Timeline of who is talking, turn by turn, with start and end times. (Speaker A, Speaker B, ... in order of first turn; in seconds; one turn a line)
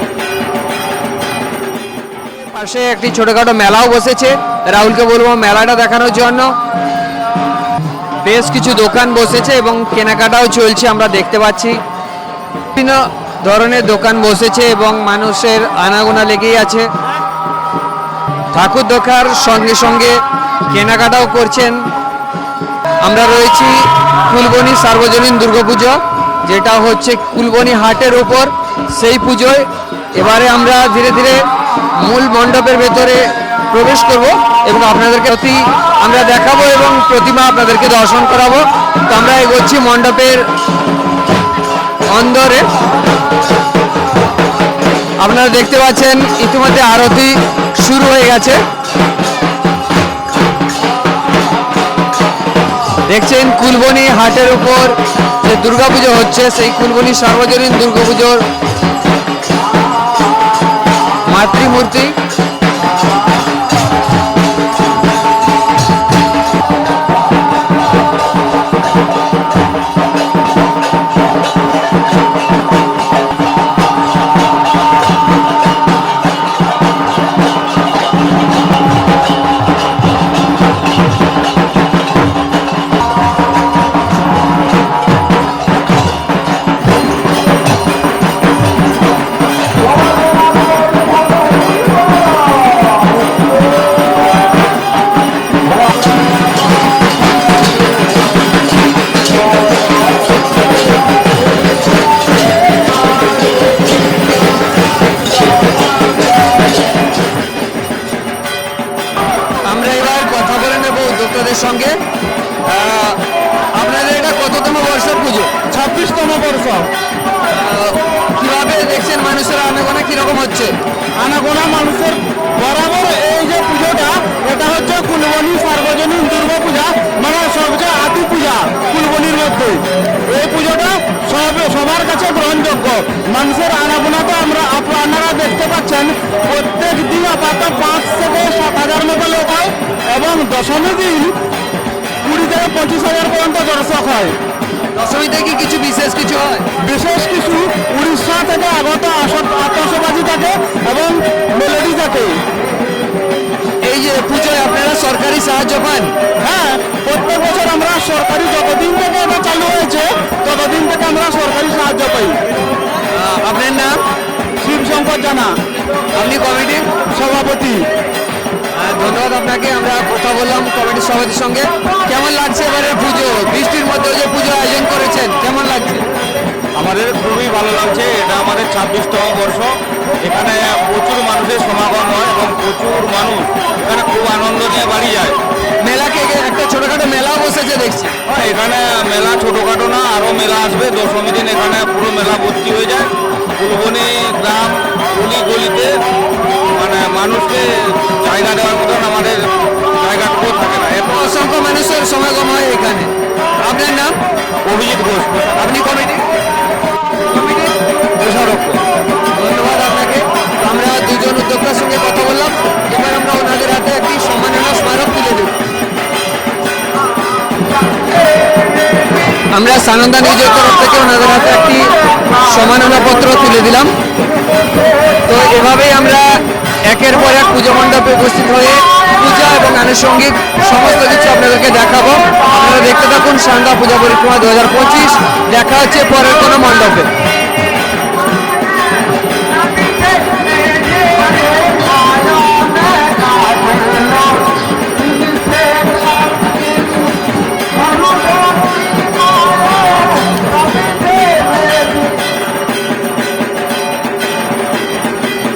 Speaker A: 2.3-6.5
Speaker A: 8.2-11.8
Speaker A: 12.8-16.9
Speaker A: 18.5-21.8
Speaker A: 23.0-31.4
Speaker A: 32.0-40.5
Speaker A: 42.1-42.7
Speaker A: 45.2-48.6
Speaker A: 53.1-58.4
Speaker A: 61.3-62.1
Speaker A: 109.6-112.0
Speaker A: 112.7-113.2
Speaker A: 113.7-115.5
Speaker B: 115.7-116.9
Speaker A: 117.5-120.8
Speaker B: 121.2-141.3
Speaker B: 142.2-144.3
Speaker A: 144.9-146.7
Speaker B: 146.8-152.4
Speaker A: 153.8-156.1
Speaker B: 156.4-162.4
Speaker A: 163.1-164.0
Speaker B: 164.6-165.6
Speaker A: 166.1-166.9
Speaker B: 167.1-167.8
Speaker A: 168.8-176.1
Speaker C: 176.8-179.7
Speaker C: 180.2-185.4
Speaker A: 185.8-188.2
Speaker C: 188.3-195.9
Speaker C: 196.7-199.4
Speaker C: 200.0-201.1
Speaker A: 201.0-203.1
Speaker A: 203.6-204.2
Speaker C: 204.7-205.6
Speaker A: 205.5-206.3
Speaker A: 207.3-207.8
Speaker C: 208.2-208.8
Speaker A: 209.3-215.6
Speaker A: 219.5-223.9
Speaker A: 225.2-237.1
Speaker A: 240.7-241.7
Speaker A: 242.3-244.1